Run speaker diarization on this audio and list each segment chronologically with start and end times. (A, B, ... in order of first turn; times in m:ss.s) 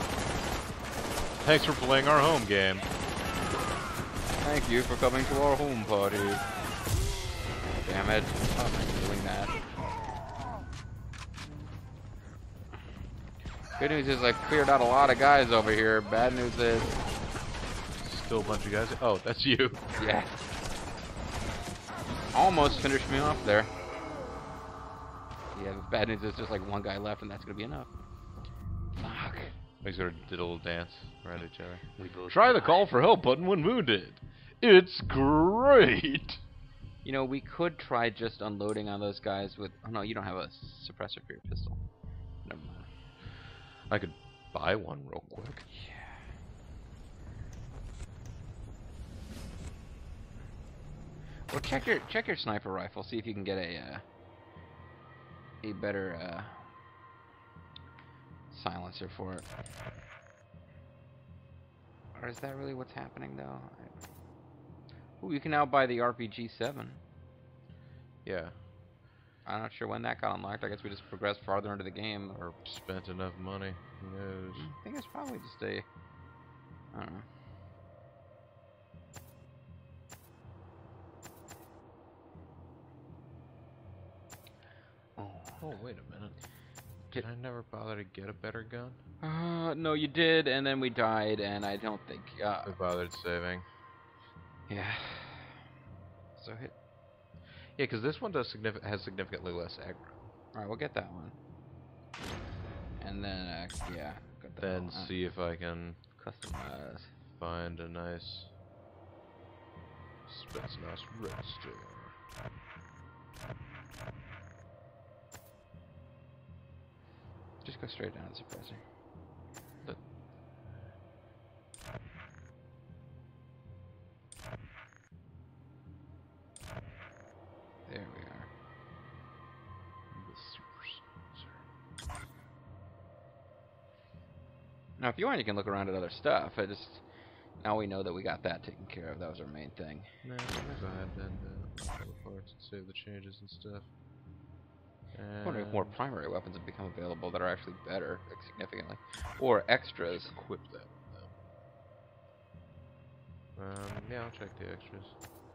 0:01.4-0:02.9 A
0:04.4-0:06.4 B
0:07.8-0:09.5 B
0:13.8-0:17.0 B
0:18.0-0:19.8 A
0:20.0-0:20.3 B
0:22.3-0:23.7 B
0:25.5-0:27.9 B
0:29.0-0:29.5 B
0:29.8-0:36.4 A
0:32.0-0:32.8 B
0:37.0-0:41.8 B
0:42.4-0:42.9 B
0:43.9-0:45.6 A
0:45.7-0:46.2 B
0:51.5-0:54.0 B
0:55.6-0:56.7 B
0:58.5-0:59.5 B
1:02.1-1:04.0 B
1:05.2-1:07.0 B
1:08.2-1:08.6 A
1:09.4-1:12.4 B
1:12.4-1:14.7 A
1:14.5-1:15.8 B
1:16.9-1:17.2 B
1:25.2-1:25.7 B
1:25.6-1:26.4 A
1:27.1-1:29.0 A
1:29.2-1:32.7 B
1:32.6-1:33.6 A
1:34.7-1:35.6 B
1:36.4-1:36.7 B
1:37.8-1:40.3 A
1:40.5-1:41.4 B
1:43.0-1:45.3 B
1:44.6-1:46.0 A
1:46.2-1:47.1 B
1:47.3-1:48.5 A
1:50.2-1:52.1 A
1:57.6-1:58.8 B
2:07.9-2:08.5 B
2:10.1-2:11.6 A
2:15.0-2:17.0 B
2:17.6-2:20.1 B
2:20.2-2:23.9 A
2:25.1-2:26.0 A
2:25.4-2:30.4 B
2:30.1-2:31.3 A
2:33.6-2:35.2 A